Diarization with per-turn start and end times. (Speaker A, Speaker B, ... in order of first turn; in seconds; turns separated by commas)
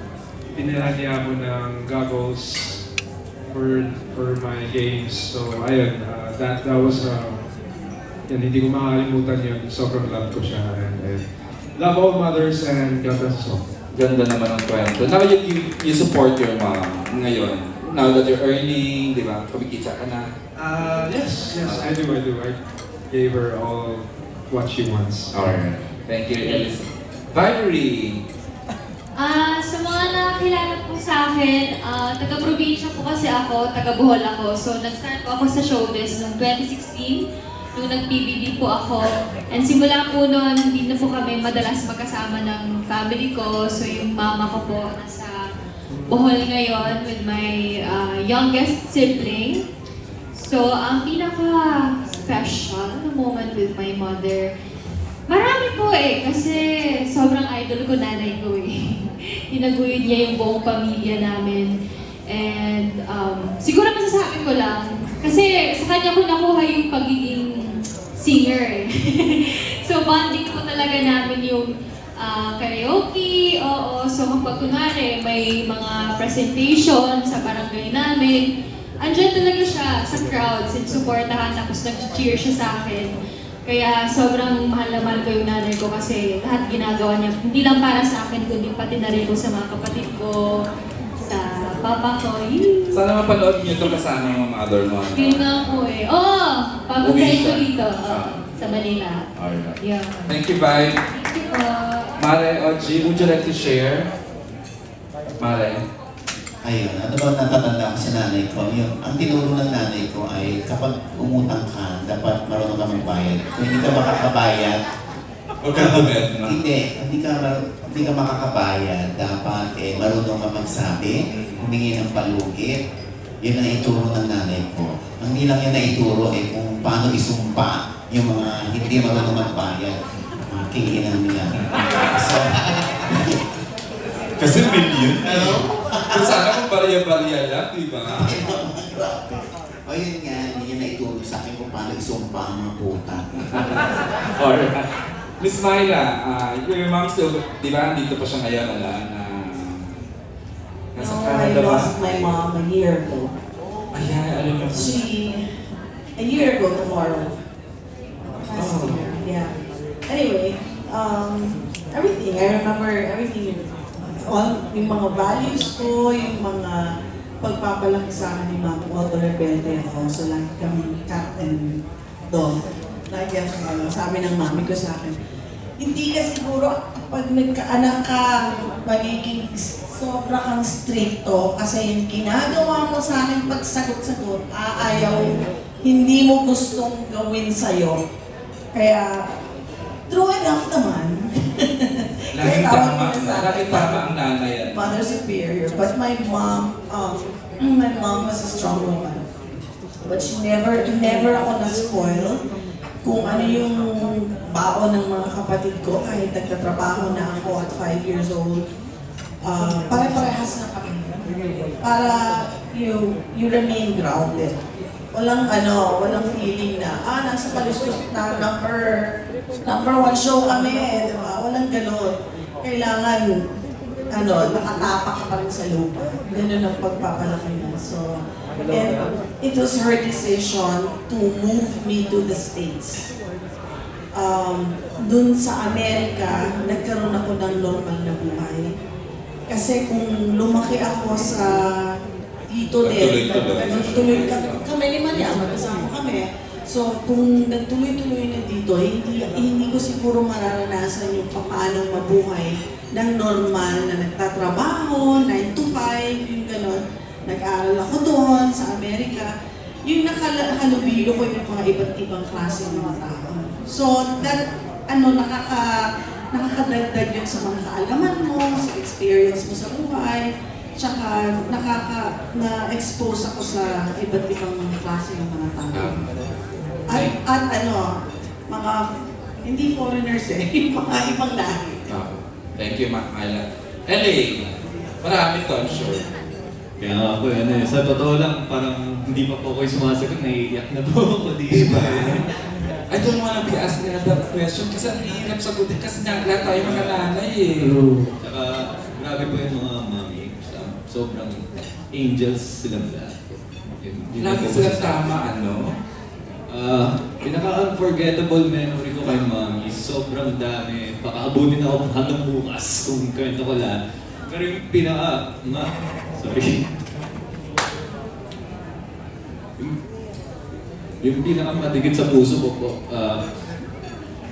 Speaker A: 0.5-2.8, Speaker A: 3.4-7.4, Speaker A: 8.3-11.2, Speaker A: 11.8-13.7, Speaker B: 13.9-20.3, Speaker A: 20.5-25.6, Speaker B: 21.6-21.9, Speaker B: 25.3-28.2, Speaker C: 29.2-37.2, Speaker C: 37.8-45.3, Speaker C: 46.1-49.6, Speaker C: 50.3-54.5, Speaker C: 55.3-61.7, Speaker C: 62.3-67.5, Speaker C: 68.2-71.7, Speaker C: 72.2-78.4, Speaker C: 79.0-83.1, Speaker C: 83.7-90.6, Speaker C: 91.2-93.0, Speaker B: 92.9-95.8, Speaker C: 95.2-99.2, Speaker B: 97.0-98.5, Speaker B: 99.3-101.0, Speaker C: 99.8-102.1, Speaker B: 102.2-104.1, Speaker B: 105.4-105.8, Speaker D: 106.6-114.8, Speaker B: 115.6-116.6, Speaker D: 115.7-122.8, Speaker D: 123.4-131.5, Speaker B: 131.7-132.1, Speaker D: 132.1-133.0, Speaker B: 134.4-138.3, Speaker D: 135.2-136.6, Speaker D: 138.1-143.8, Speaker B: 143.5-144.9, Speaker B: 145.4-149.9, Speaker B: 150.9-152.3, Speaker E: 150.9-153.3, Speaker B: 153.9-154.9, Speaker E: 154.7-155.4, Speaker E: 156.2-157.3, Speaker E: 158.3-159.5, Speaker B: 158.6-159.1, Speaker E: 160.1-163.7, Speaker E: 164.2-166.8, Speaker E: 167.4-171.7, Speaker E: 172.3-172.6, Speaker E: 173.1-175.2, Speaker E: 175.8-188.0, Speaker E: 188.7-189.3, Speaker E: 190.1-191.2, Speaker E: 192.3-194.1, Speaker B: 192.3-195.0, Speaker E: 194.7-199.2, Speaker E: 200.1-202.4, Speaker E: 203.0-208.6, Speaker E: 209.4-214.6, Speaker E: 215.1-219.0, Speaker E: 219.6-223.4, Speaker E: 224.1-228.0, Speaker E: 228.7-233.1, Speaker E: 234.2-238.7, Speaker E: 239.5-241.6, Speaker E: 242.5-259.3, Speaker B: 242.8-244.6, Speaker E: 259.9-265.7, Speaker E: 266.3-270.2, Speaker E: 270.8-276.0, Speaker B: 275.7-276.1, Speaker E: 276.9-277.9, Speaker E: 278.5-278.8, Speaker E: 279.4-281.8, Speaker B: 281.9-284.4, Speaker B: 285.0-286.0, Speaker F: 286.8-292.3, Speaker B: 291.5-292.2, Speaker B: 292.9-297.8, Speaker F: 296.6-297.1, Speaker F: 298.2-305.1, Speaker B: 304.2-305.7, Speaker F: 306.5-316.6, Speaker F: 321.0-323.2